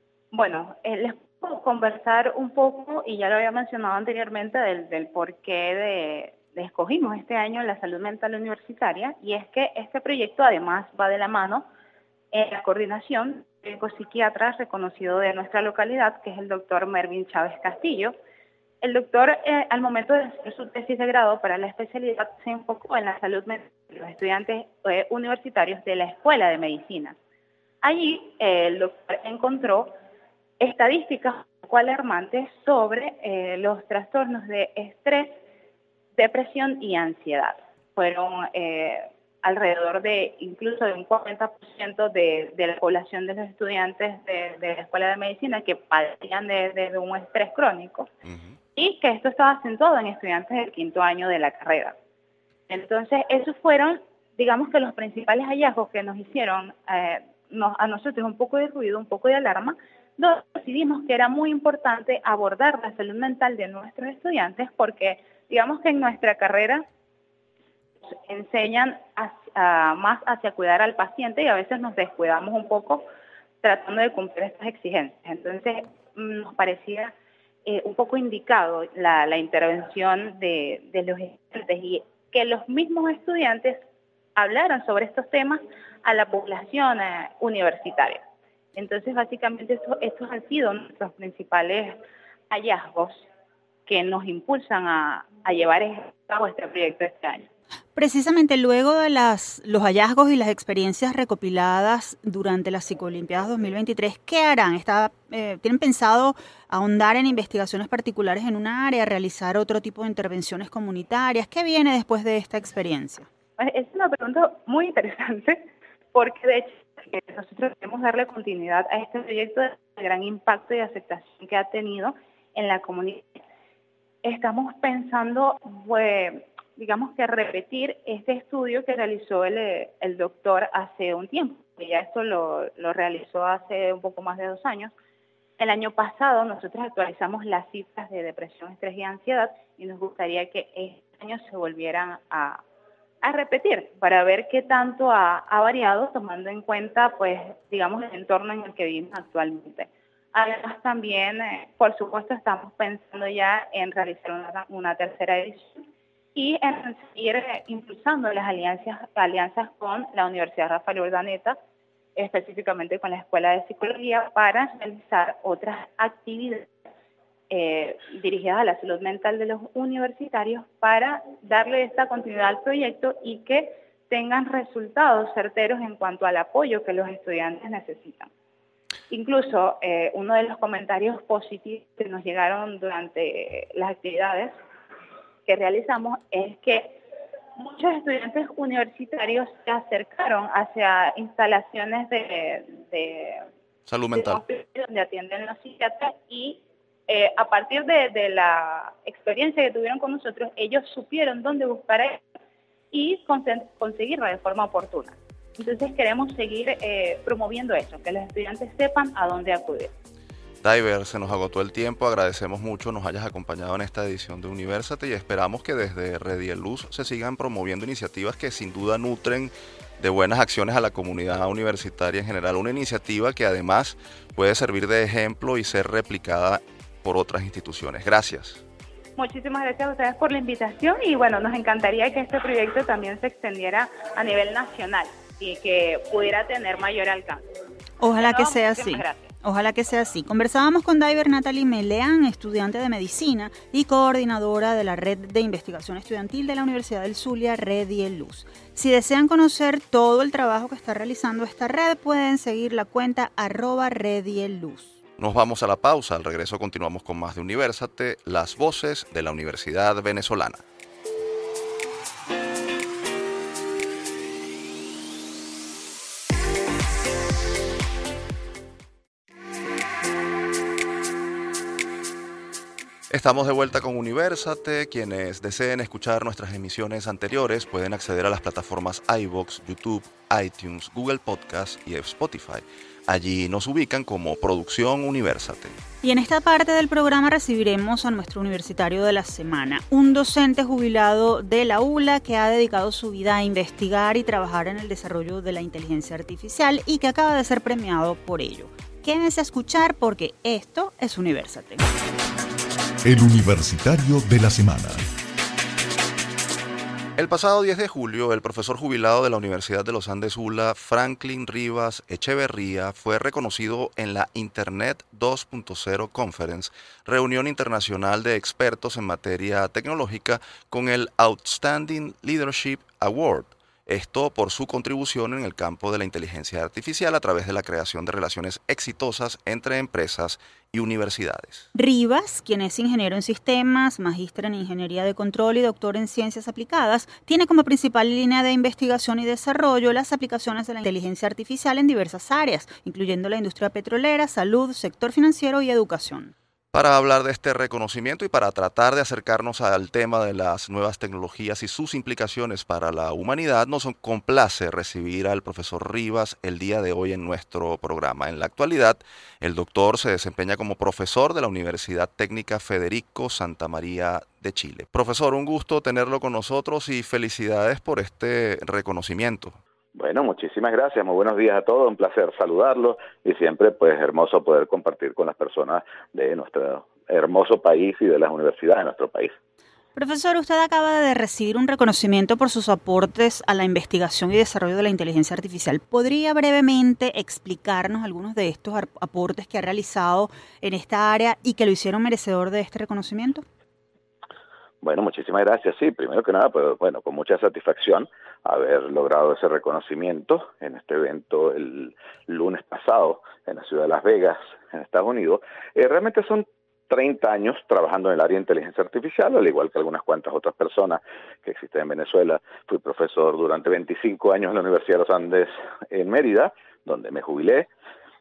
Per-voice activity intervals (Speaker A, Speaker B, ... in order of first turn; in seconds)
Speaker A: 0.3-11.7, 12.3-18.1, 18.8-27.2, 27.8-29.9, 30.6-35.4, 36.2-48.1, 48.8-52.0, 52.7-66.8, 68.3-73.1, 73.6-77.1, 77.7-83.8, 84.4-88.2, 88.8-92.0, 92.5-93.2, 93.9-97.5, 113.6-123.4, 124.2-134.9, 135.6-142.6, 143.2-155.8, 156.3-161.6, 162.2-166.7, 167.5-178.3, 179.1-184.6, 185.5-187.0, 187.6-193.4, 194.1-202.2, 202.9-209.9, 229.2-237.4, 238.2-239.3
Speaker B: 48.3-48.5, 193.9-194.4, 210.6-228.6, 255.2-260.6, 273.1-285.8, 307.2-331.7, 346.7-369.6
Speaker C: 98.0-113.3, 238.0-255.0, 286.0-301.8, 331.8-346.3, 380.0-393.4
Speaker D: 303.1-305.1
Speaker E: 369.9-379.4, 394.8-417.7